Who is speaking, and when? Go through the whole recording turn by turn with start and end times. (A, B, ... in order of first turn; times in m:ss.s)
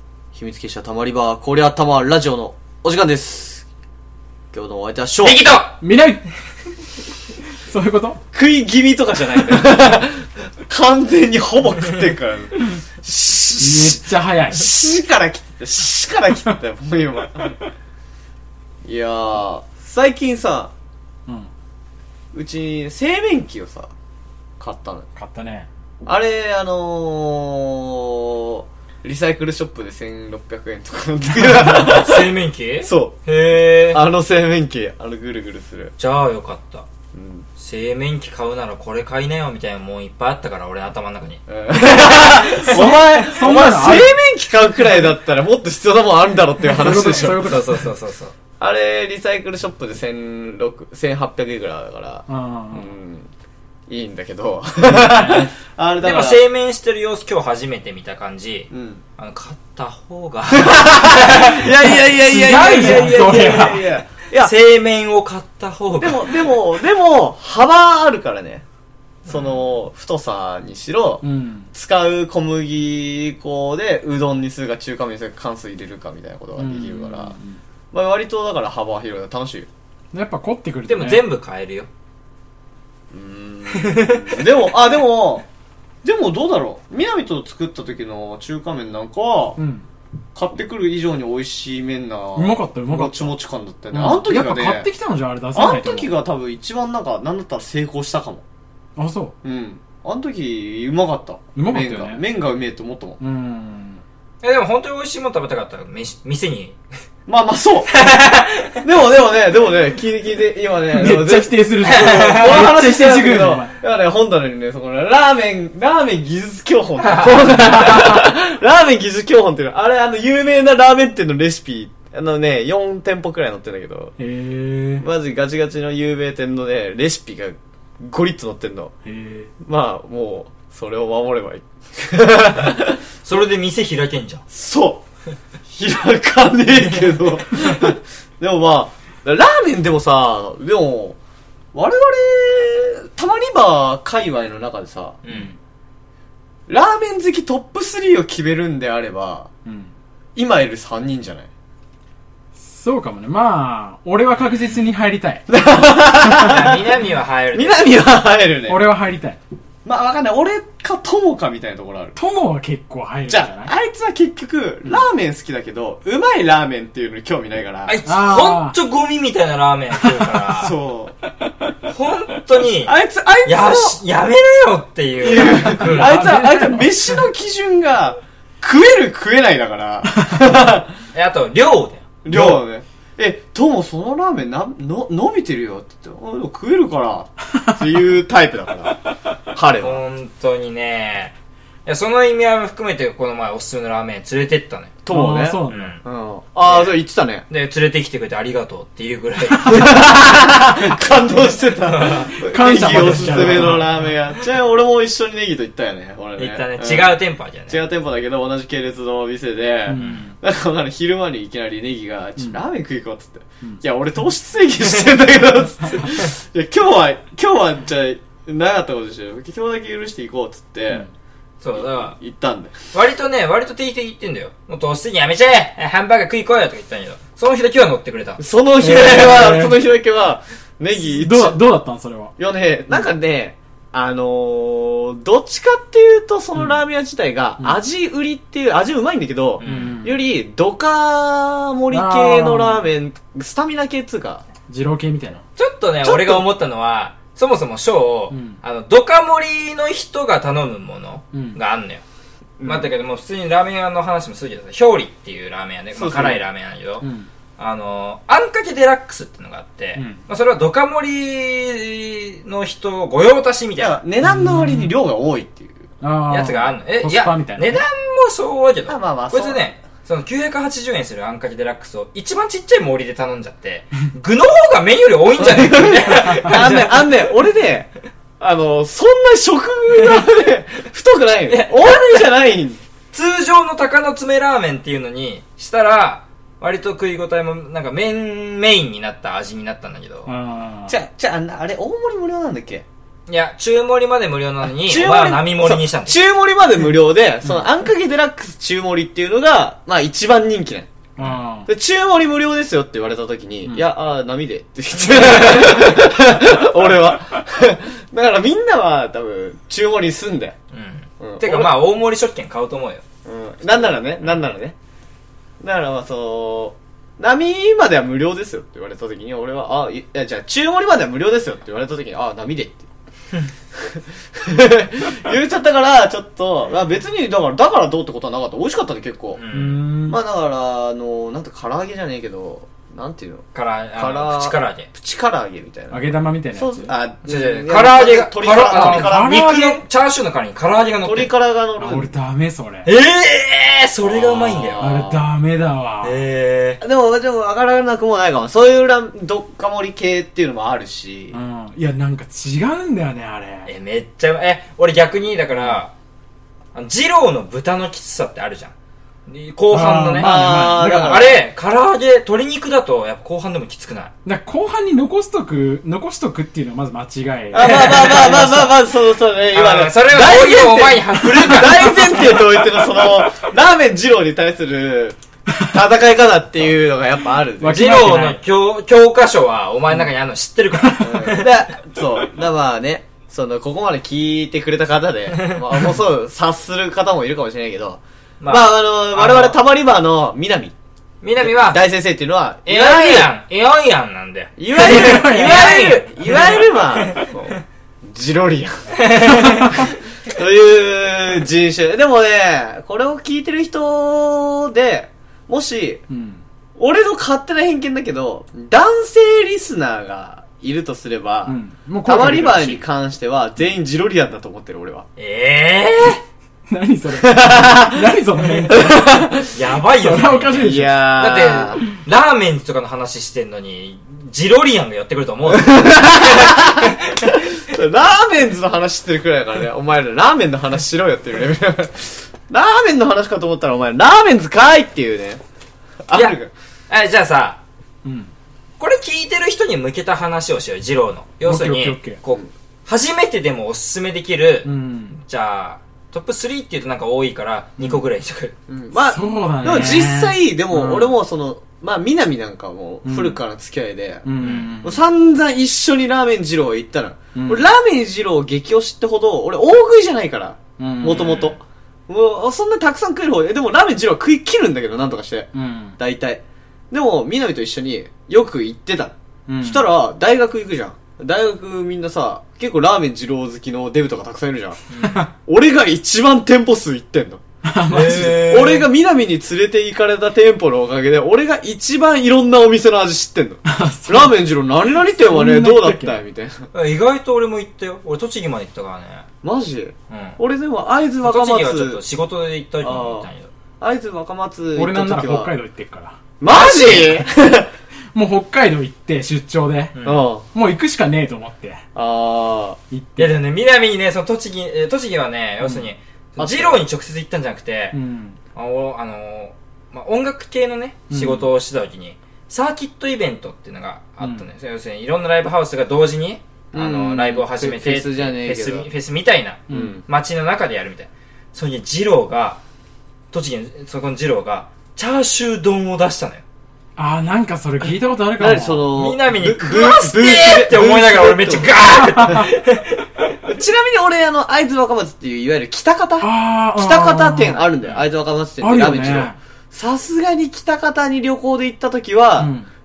0:00.3-0:03.6 A
0:04.5-0:05.6 A
0:05.2-0:05.8 B
0:05.8-0:06.2 C
0:07.7-0:08.2 C
0:08.3-0:17.6 A
0:13.6-0:14.7 C
0:18.8-0:20.7 A
0:22.3-0:23.9 A
0:24.6-0:25.1 A
0:25.2-0:25.7 C
0:26.1-0:33.2 A
0:31.7-0:34.0 B
0:33.9-0:35.9 A
0:36.0-0:36.9 B
0:37.1-0:37.5 A
0:37.6-0:43.0 B
0:41.5-0:47.6 A
0:42.6-0:44.1 C
0:46.6-0:47.9 C
0:46.8-0:48.4 B
0:48.6-0:53.3 A
0:52.3-0:52.9 C
0:53.9-0:56.4 A
0:54.9-0:55.5 C
0:56.0-1:02.0 B
0:58.7-0:59.0 A
1:00.6-1:04.5 A
1:02.2-1:03.9 C
1:02.5-1:03.7 B
1:04.4-1:06.5 B
1:06.0-1:08.6 A
1:09.3-1:17.4 A
1:11.2-1:11.7 C
1:16.6-1:17.6 C
1:17.9-1:19.7 A
1:20.1-1:21.2 C
1:20.9-1:21.9 B
1:23.1-1:25.4 A
1:23.8-1:24.3 B
1:26.0-1:29.6 A
1:29.6-1:29.9 C
1:30.4-1:34.9 A
1:32.4-1:33.4 C
1:33.9-1:36.1 C
1:35.5-1:38.4 A
1:39.0-1:39.4 C
1:39.4-1:43.2 A
1:41.6-1:42.2 C
1:43.2-1:44.0 C
1:44.4-1:46.8 B
1:47.3-1:48.0 A
1:48.0-1:48.8 B
1:48.8-2:04.2 A
1:50.9-1:53.7 C
1:51.8-1:52.6 B
1:57.0-1:58.2 B
2:04.2-2:05.0 C
2:05.0-2:08.9 A
2:09.1-2:09.5 C
2:09.6-2:13.0 A
2:13.2-2:14.4 B
2:14.5-2:15.0 A
2:15.7-2:21.2 A
2:21.7-2:25.2 A
2:25.2-2:25.5 B
2:25.3-2:25.6 C
2:26.7-2:29.5 A
2:29.7-2:29.9 C
2:30.4-2:31.5 A
2:32.6-2:35.4 C
2:34.5-2:34.7 B
2:35.5-2:36.9 A
2:36.4-2:38.0 B
2:37.5-2:38.9 A
2:38.7-2:39.4 C
2:39.8-2:42.2 A
2:42.2-2:43.7 C
2:43.3-2:48.0 A
2:47.9-2:50.8 B
2:48.0-2:48.8 C
2:50.5-2:51.2 A
2:51.9-2:52.9 B
2:52.8-2:54.0 A
2:53.4-2:56.2 B
2:55.2-3:00.9 A
2:55.4-2:57.0 C
3:01.1-3:02.6 B
3:02.2-3:10.0 A
3:09.8-3:11.3 B
3:11.9-3:15.0 B
3:15.0-3:17.5 A
3:15.1-3:16.0 C
3:15.7-3:16.0 B
3:16.6-3:17.0 B
3:17.5-3:20.1 B
3:19.6-3:41.1 A
3:21.9-3:22.3 B
3:22.4-3:24.1 C
3:22.8-3:23.7 B
3:26.4-3:27.8 B
3:29.9-3:30.4 C
3:30.0-3:30.2 B
3:41.6-3:42.2 B
3:41.8-3:42.9 A
3:42.9-3:49.5 B
3:48.4-3:51.6 A
3:49.0-3:49.9 C
3:50.9-3:52.4 C
3:52.4-4:04.4 A
3:59.6-4:00.0 B
3:59.6-4:00.2 C
4:01.9-4:02.9 C
4:04.7-4:05.4 C
4:05.6-4:12.0 B
4:06.0-4:06.4 A
4:08.3-4:08.6 C
4:11.3-4:11.6 C
4:12.6-4:12.9 A
4:12.6-4:17.0 B
4:15.9-4:16.4 A
4:17.0-4:17.3 C
4:17.6-4:24.0 B
4:20.0-4:20.2 C
4:23.8-4:25.9 A
4:24.2-4:24.9 C
4:26.0-4:27.8 C
4:26.3-4:37.1 B
4:28.9-4:29.7 A
4:35.4-4:42.8 A
4:36.3-4:37.0 C
4:41.5-4:42.3 B
4:43.1-4:50.3 B
4:50.2-4:51.0 C
4:50.9-4:52.8 A
4:53.3-4:56.2 B
4:54.8-5:00.9 A
5:01.2-5:01.7 C
5:01.7-5:10.6 A
5:05.0-5:06.0 B
5:10.7-5:13.0 B
5:11.2-5:11.8 A
5:13.2-5:14.8 A
5:15.6-5:22.9 A
5:23.8-5:29.4 A
5:29.4-5:29.8 B
5:29.5-5:30.2 C
5:30.0-5:33.4 A
5:33.5-5:34.9 B
5:34.0-5:39.5 A
5:35.9-5:36.9 C
5:37.2-5:41.3 B
5:38.7-5:39.8 C
5:41.0-5:42.1 A
5:41.8-5:42.9 C
5:42.8-5:44.9 B
5:44.0-5:45.3 A
5:44.8-5:46.2 C
5:46.0-5:46.8 B
5:46.8-5:51.4 A
5:51.3-5:53.7 C
5:53.7-5:55.9 B
5:56.8-5:58.7 B
5:59.3-6:04.1 B
5:59.7-6:01.3 C
6:00.2-6:01.4 A
6:04.2-6:08.2 C
6:07.5-6:17.8 A
6:07.5-6:08.8 B
6:09.5-6:12.6 B
6:17.6-6:18.4 C
6:17.6-6:21.5 B
6:20.8-6:21.1 C
6:21.0-6:30.7 A
6:28.4-6:29.6 B
6:31.2-6:31.8 B
6:31.4-6:33.3 A
6:32.7-6:37.5 B
6:34.6-6:38.9 A
6:34.7-6:35.7 C
6:39.0-6:39.9 B
6:40.3-6:46.0 A
6:46.1-6:46.4 C
6:46.8-6:55.1 A
6:51.5-6:52.8 C
6:55.2-6:56.2 B
6:56.7-6:59.2 C
6:57.1-6:58.0 A
6:58.7-6:59.5 A
6:59.5-7:07.5 B
7:00.0-7:01.1 C
7:00.6-7:01.8 A
7:05.5-7:15.4 A
7:16.1-7:16.5 A
7:16.1-7:16.4 B
7:16.9-7:17.6 B
7:18.0-7:18.3 C
7:18.8-7:28.5 B
7:21.4-7:22.2 C
7:24.6-7:25.2 C
7:28.7-7:34.3 A
7:29.0-7:31.2 C
7:33.0-7:33.4 C
7:34.2-7:35.0 C
7:34.4-7:34.7 B
7:34.8-7:54.8 A
7:37.4-7:37.7 C
7:40.8-7:41.4 C
7:41.1-7:41.6 B
7:45.5-7:46.0 C
7:49.5-7:49.8 C
7:54.9-7:55.2 B
7:55.0-7:55.3 C
7:55.4-8:06.7 A
7:57.6-7:58.6 C
7:57.9-7:58.9 B
8:03.6-8:04.4 C
8:05.0-8:06.2 C
8:06.7-8:09.2 B
8:09.4-8:12.0 A
8:10.1-8:10.4 B
8:11.2-8:13.5 B
8:12.8-8:13.3 A
8:13.8-8:15.5 A
8:14.8-8:16.2 C
8:16.4-8:17.7 A
8:16.5-8:17.2 B
8:18.1-8:20.0 C
8:20.0-8:20.2 B
8:20.0-8:20.5 A
8:20.5-8:21.8 C
8:22.0-8:22.8 A
8:22.9-8:23.4 C
8:23.2-8:28.0 B
8:26.4-8:26.9 A
8:27.9-8:28.4 C
8:28.6-8:42.6 B
8:31.1-8:31.5 C
8:34.2-8:34.5 C
8:36.7-8:38.9 A
8:39.7-8:40.0 C
8:39.7-8:40.0 A
8:43.3-8:46.4 B
8:47.0-8:49.0 C
8:48.4-8:52.4 A
8:49.0-8:53.2 B
8:53.4-9:02.5 A
8:56.2-8:57.7 C
8:58.6-8:59.4 C
9:02.4-9:02.7 C